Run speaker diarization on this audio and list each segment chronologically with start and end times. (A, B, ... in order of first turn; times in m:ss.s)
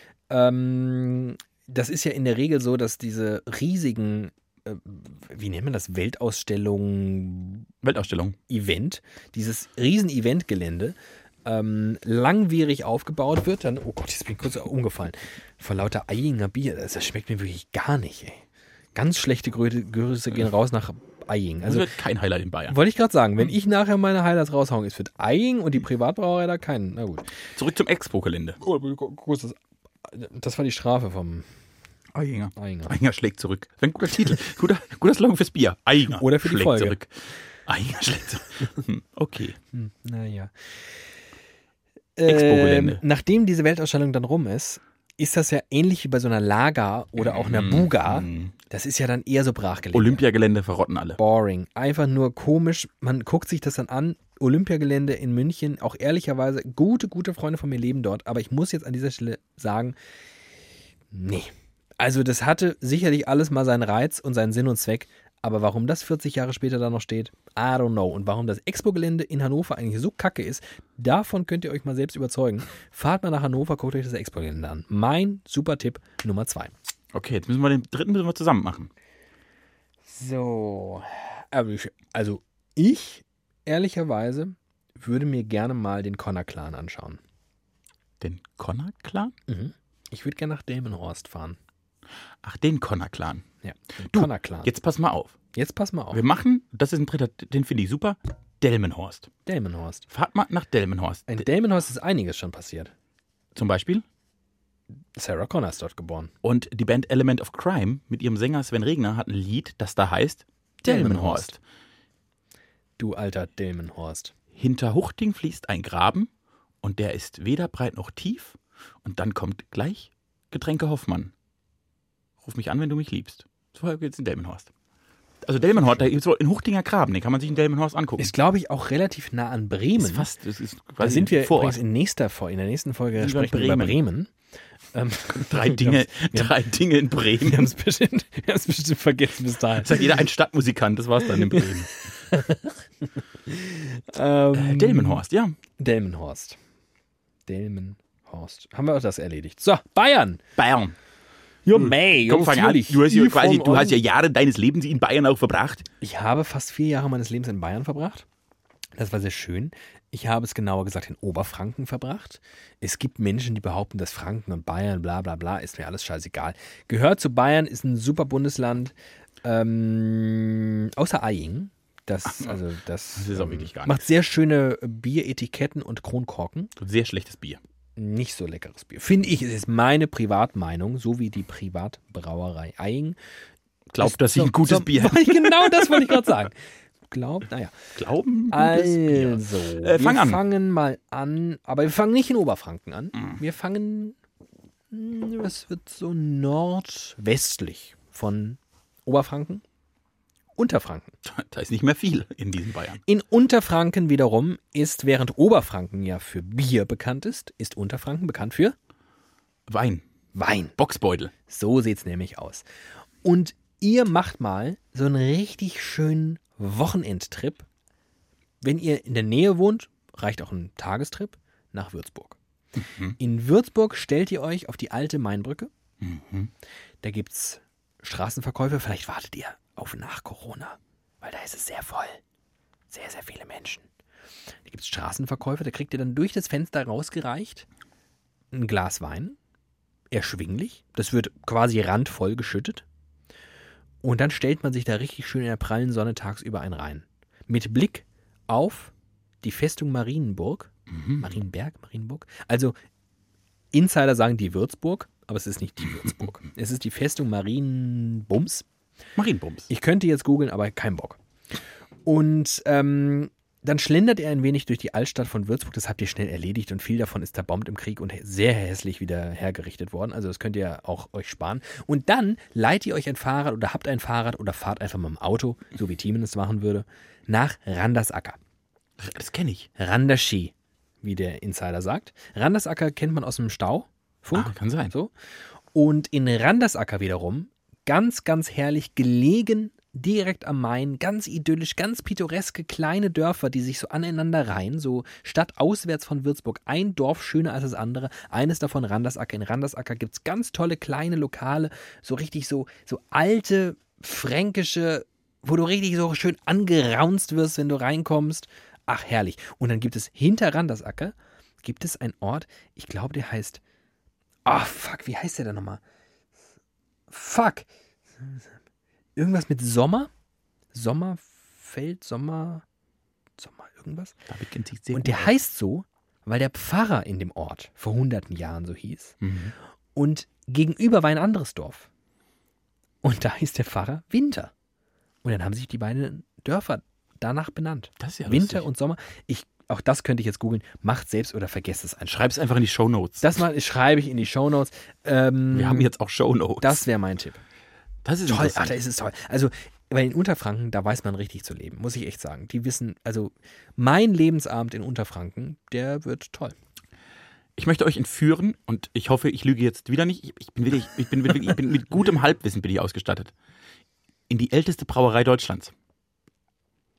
0:00.3-0:07.7 A
0:07.8-0:08.4 B
0:08.5-0:18.4 A
0:18.9-0:21.9 A
0:21.6-0:22.8 B
0:22.7-0:27.3 A
0:27.5-0:28.6 B
0:28.6-0:31.5 A
0:32.1-0:39.6 B
0:32.6-0:32.9 A
0:36.2-0:37.0 A
0:39.7-0:41.0 A
0:42.2-0:50.2 A
0:42.2-0:43.0 B
0:47.2-0:48.5 B
0:49.9-0:51.2 B
0:51.2-1:00.0 A
1:01.1-1:16.7 A
1:17.1-1:18.9 B
1:20.0-1:27.2 A
1:28.2-1:29.3 B
1:29.5-1:31.6 A
1:32.4-1:33.4 B
1:33.6-1:34.7 A
1:34.0-1:35.4 B
1:35.5-1:36.2 A
1:36.1-1:39.3 B
1:39.4-1:40.0 A
1:40.1-1:41.4 B
1:41.3-1:42.9 A
1:43.5-1:44.0 B
1:45.2-1:46.3 A
1:46.4-1:51.6 B
1:50.8-1:51.5 A
1:53.0-1:54.3 A
1:54.5-1:56.3 B
1:56.8-2:01.3 B
2:02.4-2:04.7 B
2:05.4-2:08.3 B
2:08.2-2:10.3 A
2:10.0-2:11.8 B
2:11.0-2:14.3 A
2:13.2-2:14.0 B
2:14.9-2:16.5 A
2:15.3-2:17.7 B
2:17.4-2:20.2 A
2:19.8-2:21.9 B
2:21.2-2:21.7 A
2:22.3-2:25.2 A
2:24.5-2:25.6 B
2:25.8-2:26.6 A
2:27.4-2:30.4 A
2:30.6-2:30.9 B
2:31.6-2:34.0 A
2:31.7-2:35.8 B
2:36.0-2:38.2 A
2:38.9-2:56.7 A
2:53.1-2:54.0 B
2:56.8-2:57.6 B
2:58.0-3:03.2 A
3:03.9-3:06.2 B
3:04.0-3:07.7 A
3:08.0-3:10.4 B
3:08.5-3:14.2 A
3:14.9-3:19.6 A
3:20.6-3:21.1 A
3:21.2-3:23.0 B
3:23.0-3:28.8 A
3:29.7-3:30.0 B
3:30.3-3:30.7 A
3:30.8-3:31.3 B
3:31.5-3:32.6 A
3:33.2-3:37.6 A
3:38.6-3:42.4 A
3:42.8-3:43.2 B
3:43.2-3:45.7 A
3:46.0-3:46.5 B
3:47.0-3:52.2 A
3:52.9-3:53.8 A
3:54.7-3:57.7 A
3:58.5-3:59.4 A
4:00.1-4:02.8 A
4:04.0-4:12.8 A
4:10.9-4:11.2 B
4:13.7-4:18.6 A
4:19.2-4:19.7 B
4:19.7-4:21.2 A
4:22.0-4:38.4 A
4:39.0-4:39.7 B
4:39.8-4:45.1 A
4:44.3-4:44.9 B
4:45.7-5:13.6 A
5:14.4-5:15.8 A
5:17.1-5:17.7 A
5:18.2-5:18.4 A
5:19.2-5:20.1 A
5:20.7-5:22.6 A
5:23.4-5:24.2 A
5:24.3-5:25.3 B
5:24.9-5:29.2 A
5:29.2-5:29.5 B
5:29.9-5:31.9 A
5:33.0-5:34.5 A
5:35.2-5:42.3 A
5:38.0-5:38.6 B
5:42.1-5:43.3 B
5:43.2-5:45.9 A
5:45.5-5:46.8 B
5:46.6-5:47.4 A
5:48.0-5:48.8 B
5:48.2-5:56.5 A
5:57.6-6:03.3 B
6:04.3-6:05.7 B